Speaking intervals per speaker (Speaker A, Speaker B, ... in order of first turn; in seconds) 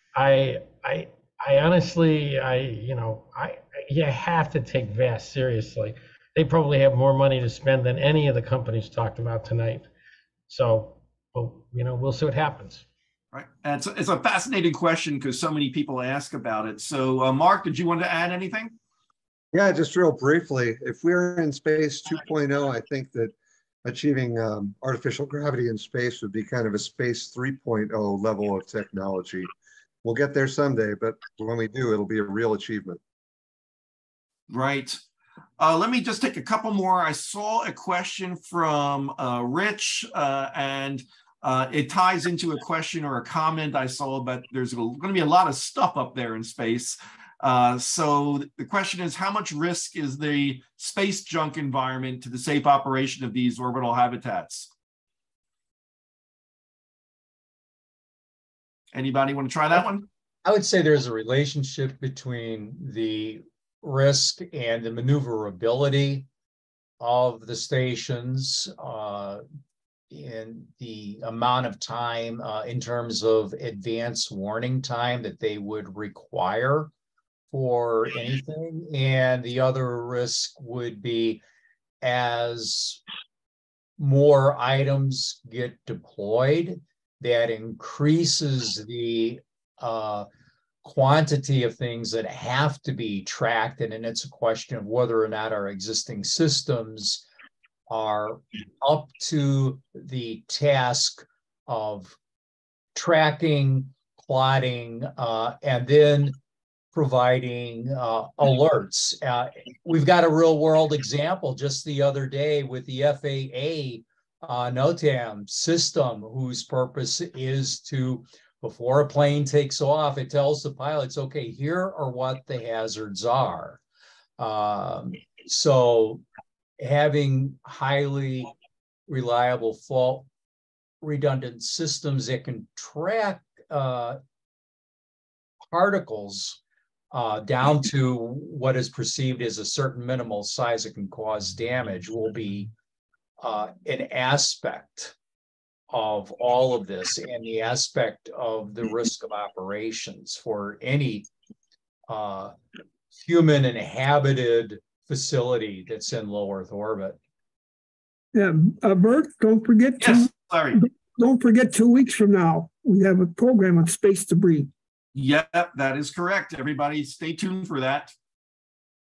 Speaker A: 0.1-9.9, 10.5-12.8
Speaker B: 13.3-18.8, 34.5-35.0, 35.6-54.7, 58.9-60.1, 160.0-160.8, 165.1-168.1
Speaker C: 19.5-23.3, 23.9-29.5, 30.0-33.0
Speaker D: 60.5-66.3, 67.0-69.4, 70.1-76.9, 77.5-81.4, 82.0-83.0, 84.0-90.3, 90.8-97.2, 97.9-102.2, 103.0-106.3, 106.9-123.8, 124.4-126.2, 126.8-128.5, 129.1-130.3, 131.0-134.2, 135.7-136.6, 137.1-142.7, 143.4-145.2, 145.9-151.3, 152.1-152.6, 153.1-157.2
Speaker E: 158.3-164.7